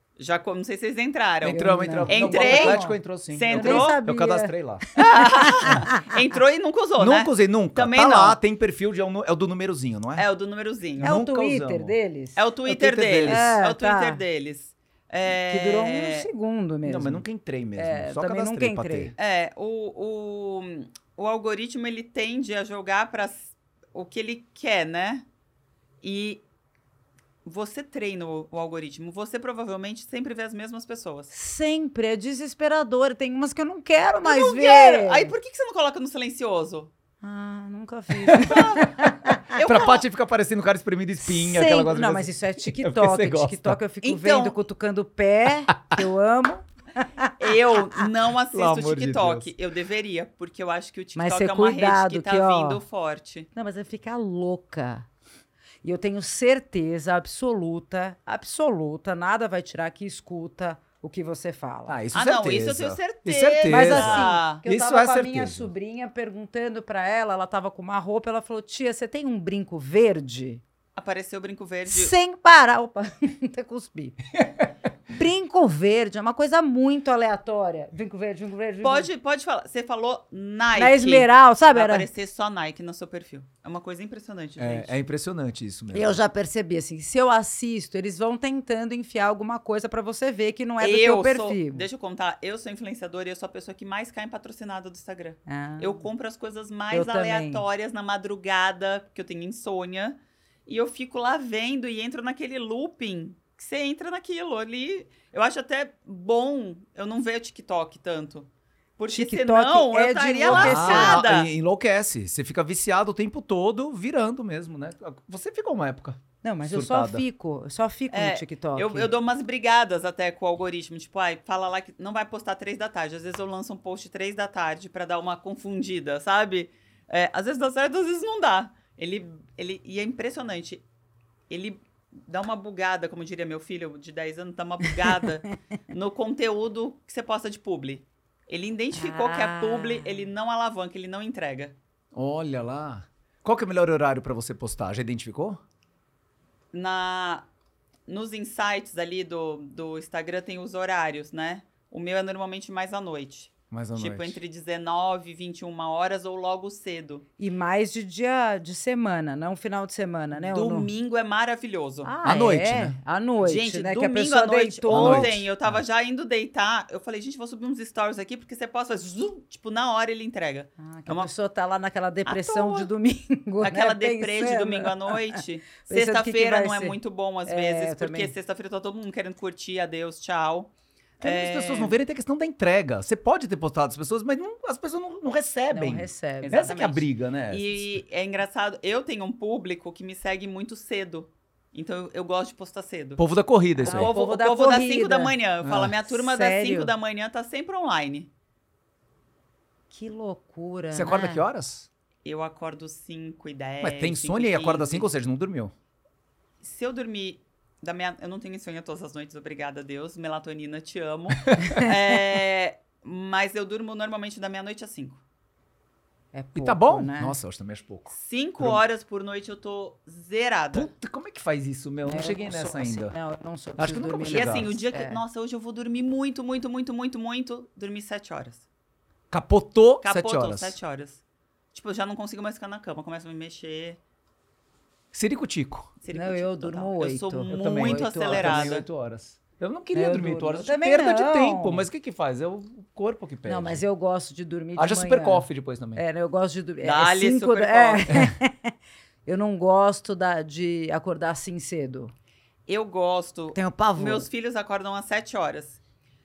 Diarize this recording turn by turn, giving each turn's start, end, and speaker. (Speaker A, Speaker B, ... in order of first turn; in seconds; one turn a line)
Speaker A: 0.2-4.0
Speaker B: 1.4-4.8
Speaker C: 1.4-3.0
Speaker C: 3.5-6.1
Speaker A: 5.0-8.4
Speaker B: 7.0-10.3
Speaker A: 10.2-11.1
Speaker B: 11.0-11.9
Speaker C: 11.0-12.4
Speaker A: 12.3-16.3
Speaker B: 12.7-13.5
Speaker C: 13.2-14.2
Speaker C: 15.5-17.2
Speaker B: 16.8-19.1
Speaker C: 17.8-19.1
Speaker A: 19.2-25.2
Speaker A: 26.0-26.4
Speaker A: 27.4-31.3
Speaker C: 31.3-35.3
Speaker A: 34.2-36.9
Speaker C: 37.2-39.5
Speaker B: 38.3-43.8
Speaker A: 38.4-38.9
Speaker A: 39.5-40.0
Speaker C: 41.3-47.3
Speaker A: 44.0-44.6
Speaker A: 47.4-53.5
Speaker B: 48.5-49.5
Speaker C: 51.1-52.8
Speaker C: 53.5-55.1
Speaker C: 55.8-62.0
Speaker B: 61.9-65.7
Speaker A: 62.1-64.6
Speaker C: 63.7-70.6
Speaker A: 71.0-72.1
Speaker C: 71.9-74.2
Speaker C: 75.1-79.1
Speaker A: 78.8-85.0
Speaker C: 80.7-82.1
Speaker B: 84.6-86.2
Speaker C: 85.9-91.8
Speaker A: 90.8-111.5
Speaker C: 95.5-96.1
Speaker C: 96.9-97.6
Speaker C: 109.1-111.2
Speaker B: 110.5-117.2
Speaker C: 116.4-119.1
Speaker A: 118.1-130.8
Speaker A: 131.5-141.7
Speaker C: 138.9-140.3
Speaker B: 142.1-145.6
Speaker A: 146.7-147.5
Speaker A: 148.1-157.2
Speaker B: 153.7-154.4
Speaker C: 157.4-160.9
Speaker A: 160.3-162.1
Speaker C: 162.0-165.3
Speaker B: 162.2-162.9
Speaker A: 163.4-171.3
Speaker B: 164.9-165.8
Speaker C: 170.8-178.3
Speaker A: 172.2-172.9
Speaker A: 173.6-181.9
Speaker B: 181.2-188.0
Speaker C: 185.7-186.7
Speaker A: 186.4-193.2
Speaker B: 193.2-194.1
Speaker C: 193.8-196.9
Speaker A: 193.8-198.3
Speaker B: 195.6-196.0
Speaker C: 199.9-201.4
Speaker B: 200.9-201.9
Speaker A: 202.2-205.1
Speaker B: 203.8-205.7
Speaker A: 206.6-215.2
Speaker B: 211.5-211.8
Speaker C: 216.3-217.4
Speaker B: 216.5-218.8
Speaker A: 218.1-220.9
Speaker B: 220.7-223.1
Speaker C: 222.0-225.2
Speaker B: 223.8-224.7
Speaker A: 224.3-228.7
Speaker B: 229.3-230.8
Speaker A: 230.0-231.2
Speaker A: 231.7-234.0
Speaker B: 235.1-235.9
Speaker A: 236.0-238.8
Speaker C: 236.1-238.7
Speaker B: 237.5-243.8
Speaker C: 239.9-241.9
Speaker C: 243.4-248.7
Speaker B: 244.8-246.0
Speaker A: 246.8-248.3
Speaker C: 249.2-252.1
Speaker A: 252.7-255.8
Speaker C: 253.5-254.3